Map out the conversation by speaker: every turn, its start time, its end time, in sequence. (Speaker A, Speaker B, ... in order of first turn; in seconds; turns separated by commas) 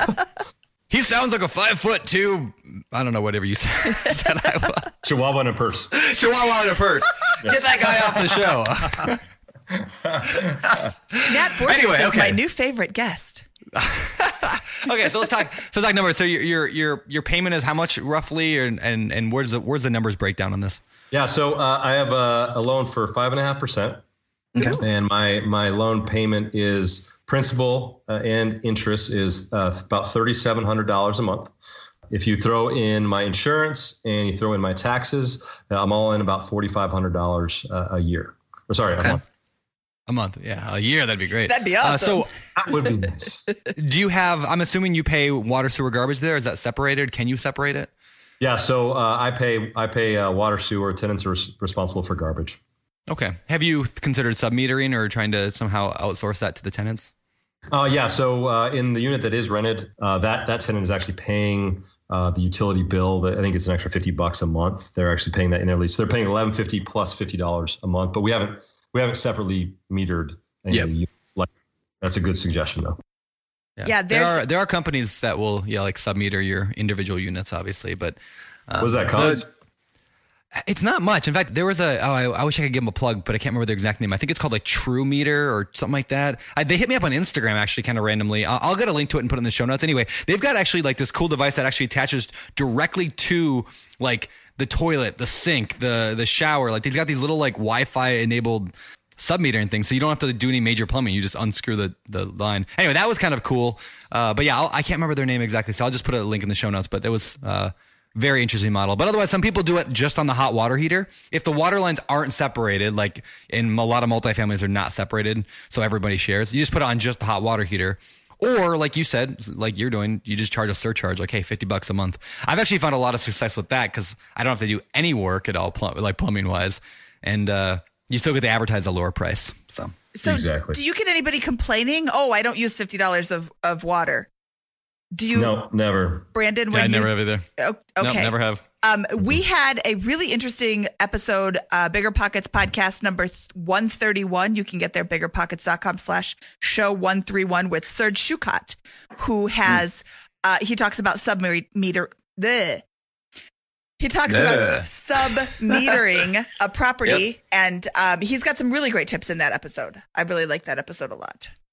Speaker A: 0.9-4.9, Speaker B: 5.0-5.9, Speaker A: 5.9-9.2, Speaker B: 7.4-8.2, Speaker B: 9.7-10.9, Speaker A: 10.7-12.4, Speaker C: 11.2-13.5, Speaker A: 13.8-20.8, Speaker B: 21.1-24.0, Speaker C: 24.6-24.8, Speaker B: 24.8-31.5, Speaker B: 32.1-39.2, Speaker A: 40.1-42.3, Speaker C: 41.5-42.3, Speaker B: 42.6-43.4, Speaker A: 43.8-47.9, Speaker B: 48.4-52.6, Speaker A: 53.1-57.1, Speaker B: 57.7-71.5, Speaker B: 72.0-73.0, Speaker A: 73.8-78.2, Speaker C: 73.9-74.4, Speaker A: 78.7-79.4, Speaker B: 78.8-79.5, Speaker A: 80.6-129.9, Speaker C: 130.1-134.3, Speaker B: 130.2-130.8, Speaker C: 135.1-135.6, Speaker B: 135.3-136.3, Speaker C: 136.3-152.8, Speaker A: 136.7-137.4, Speaker A: 138.0-138.6, Speaker C: 154.0-161.5, Speaker A: 154.3-155.9